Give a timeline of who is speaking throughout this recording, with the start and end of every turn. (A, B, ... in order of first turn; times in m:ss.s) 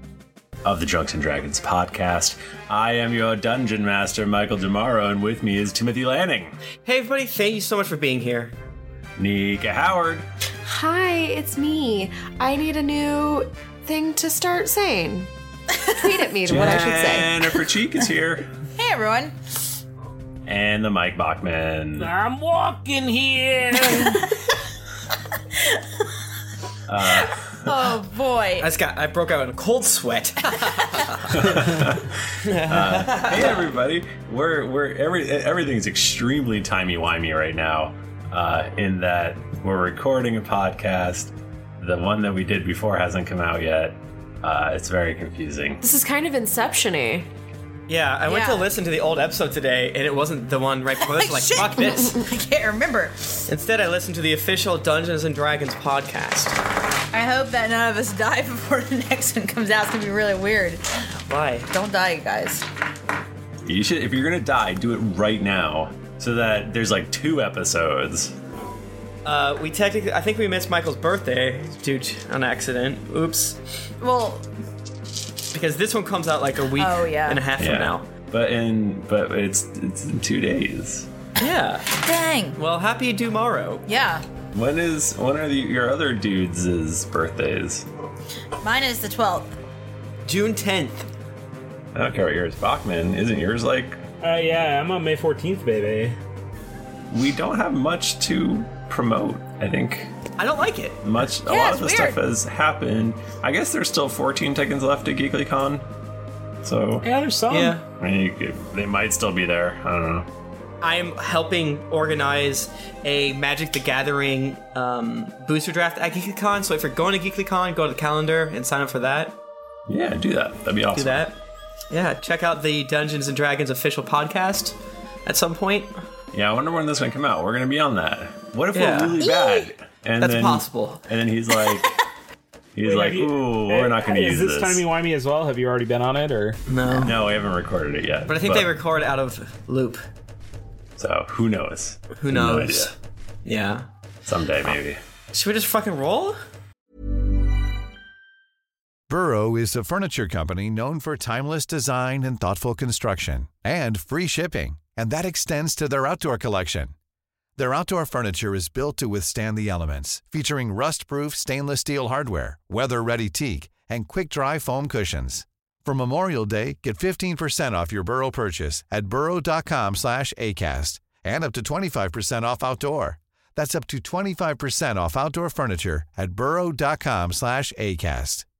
0:00.6-0:06.5 A
0:06.8-0:08.5 B
0:09.2-0:10.2 A
0:10.6-0:15.3 C
0:15.9-0:17.3 C
0:16.4-0:18.5 A
0:18.8-0:19.3 D
0:20.4-0:22.1 A
0:22.0-0:24.2 E
0:23.9-0:24.1 D
0:26.9-0:27.7 A
0:27.6-0:28.7 D
0:28.6-0:31.6 B
0:31.3-0:45.8 A
0:32.4-0:33.7 B
0:45.8-0:47.3 C
0:47.9-0:52.2 B
0:48.3-0:48.7 D
0:51.0-0:53.2 D
0:53.5-0:56.6 B
0:57.1-1:00.8 D
1:01.3-1:01.7 B
1:01.7-1:02.6 D
1:03.6-1:08.3 A
1:09.2-1:13.6 B
1:14.0-1:14.4 D
1:15.5-1:18.1 B
1:16.8-1:17.5 D
1:17.6-1:21.1 A
1:21.4-1:21.9 B
1:22.0-1:22.6 D
1:22.6-1:23.8 B
1:23.9-1:24.2 D
1:24.5-1:27.9 A
1:28.6-1:29.5 D
1:30.2-1:31.1 B
1:31.9-1:34.0 A
1:34.2-1:36.2 E
1:37.1-1:40.1 A
1:40.4-1:41.0 B
1:41.0-1:45.9 A
1:41.4-1:42.2 D
1:46.6-1:47.1 A
1:47.0-1:47.8 E
1:47.5-1:47.8 B
1:48.0-1:50.3 A
1:50.8-1:59.4 B
1:59.9-2:01.3 A
2:00.9-2:01.4 B
2:01.9-2:05.9 B
2:06.3-2:12.0 A
2:08.7-2:09.2 B
2:09.2-2:09.7 D
2:10.2-2:11.0 B
2:12.7-2:14.8 A
2:12.8-2:16.6 E
2:16.7-2:17.2 B
2:17.0-2:18.7 A
2:18.3-2:20.0 B
2:21.0-2:22.9 A
2:22.2-2:22.9 B
2:23.4-2:23.9 B
2:24.2-2:25.0 A
2:25.3-2:26.4 B
2:29.1-2:36.9 F
2:37.6-2:58.4 F